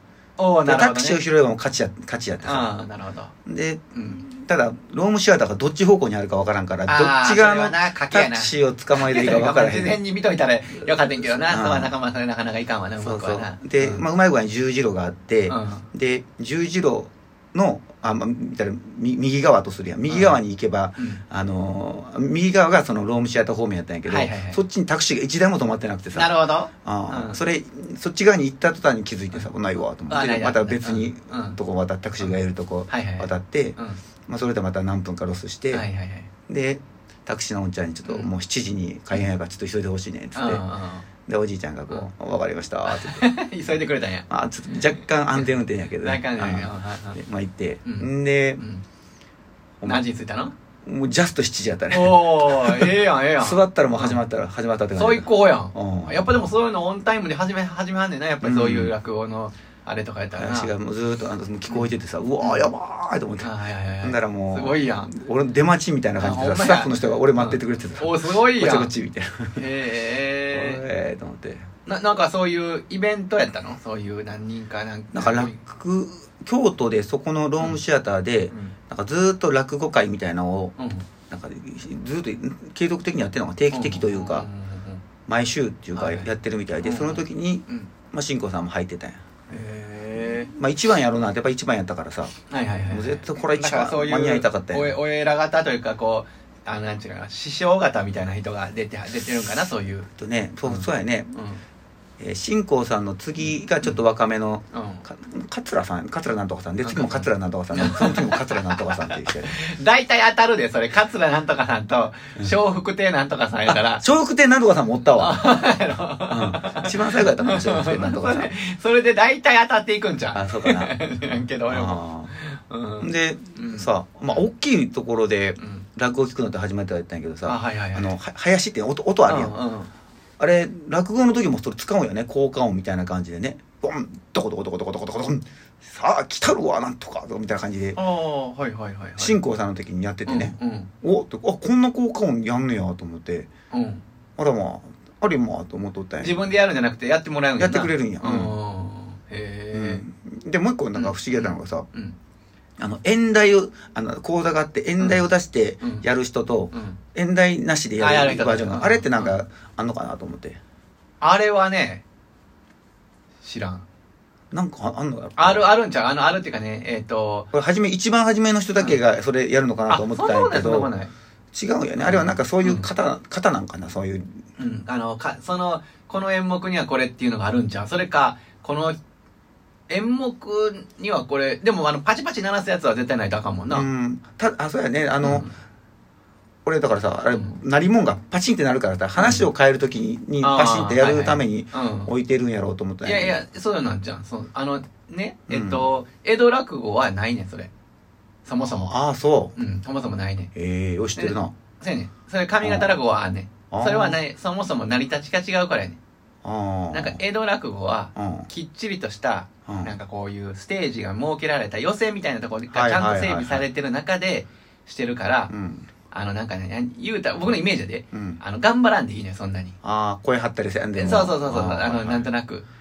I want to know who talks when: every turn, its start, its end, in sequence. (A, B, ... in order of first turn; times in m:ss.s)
0:00.4-0:01.2 A
0:00.6-0:02.7 B
0:02.4-0:03.3 A
0:03.4-0:10.0 B
0:03.9-0:04.2 A
0:06.9-0:14.0 A
0:11.2-0:11.9 B
0:13.0-0:35.8 B
0:15.5-0:15.8 A
0:20.1-0:20.4 A
0:24.0-0:24.6 A
0:26.1-0:27.4 A
0:30.1-0:31.6 A
0:32.9-0:34.0 A
0:35.7-0:36.3 A
0:36.5-0:40.7 B
0:38.0-0:38.3 A
0:40.3-0:41.0 A
0:41.3-0:43.3 B
0:42.9-0:44.2 A
0:44.3-0:48.6 B
0:45.3-0:47.2 A
0:47.8-0:48.8 A
0:49.8-0:50.5 A
0:50.8-0:56.5 B
0:51.9-0:54.2 A
0:55.0-1:00.7 A
0:58.4-0:58.9 B
1:00.3-1:09.6 B
1:01.7-1:02.7 A
1:03.4-1:05.1 A
1:06.2-1:08.9 A
1:09.5-1:10.8 A
1:10.5-1:11.6 B
1:11.8-1:15.6 A
1:15.1-1:20.7 B
1:18.5-1:18.7 A
1:20.8-1:21.0 A
1:21.3-1:24.5 B
1:23.7-1:25.0 A
1:25.3-1:29.2 B
1:25.9-1:26.3 A
1:26.8-1:27.9 A
1:29.5-1:30.5 A
1:30.2-1:32.3 B
1:32.5-1:40.1 A
1:32.9-1:35.0 B
1:40.2-1:41.4 B
1:40.6-1:41.6 A
1:42.2-1:49.6 B
1:43.4-1:44.0 A
1:44.7-1:45.0 A
1:46.8-1:54.0 A
1:53.7-1:55.6 B
1:55.2-2:03.9 A
1:56.3-1:58.5 B
2:00.3-2:00.9 B
2:01.7-2:02.3 B
2:03.0-2:09.6 B
2:05.6-2:05.8 A
2:07.4-2:08.1 A
2:09.2-2:09.9 A
2:10.4-2:18.0 B
2:17.9-2:19.4 A
2:19.2-2:23.5 B
2:20.2-2:20.9 A
2:23.7-2:24.0 A
2:24.4-2:26.5 B
2:26.2-2:30.0 A
2:27.6-2:28.6 B
2:29.7-2:31.9 B
2:30.9-2:32.1 A
2:32.8-2:40.6 B
2:35.0-2:35.2 A
2:36.7-2:37.0 A
2:38.0-2:39.4 A
2:41.2-2:42.0 A
2:43.4-2:43.8 A
2:44.5-2:45.7 B
2:45.4-2:47.5 A
2:47.5-2:50.9 B
2:49.9-2:51.1 A
2:51.5-2:54.4 B
2:52.0-2:52.9 A
2:54.6-2:59.0 A
2:59.9-3:03.9 A
3:03.7-3:05.5 B
3:05.2-3:05.5 A
3:06.6-3:13.4 B
3:07.3-3:07.6 A
3:09.2-3:09.5 A
3:10.4-3:12.1 A
3:13.0-3:17.7 A
3:15.5-3:15.9 B
3:18.4-3:18.9 A
3:18.6-3:19.6 B
3:19.6-3:20.5 A
3:20.5-3:21.5 B
3:21.2-3:26.0 A
3:22.6-3:22.9 B
3:23.7-3:24.2 B
3:26.4-3:27.2 B
3:26.9-3:35.5 A
3:28.2-3:28.5 B
3:29.7-3:29.9 B
3:32.7-3:33.6 B
3:35.5-3:35.9 B
3:36.1-3:39.8 A
3:38.1-3:38.4 B
3:39.8-3:42.3 B
3:41.0-3:42.6 A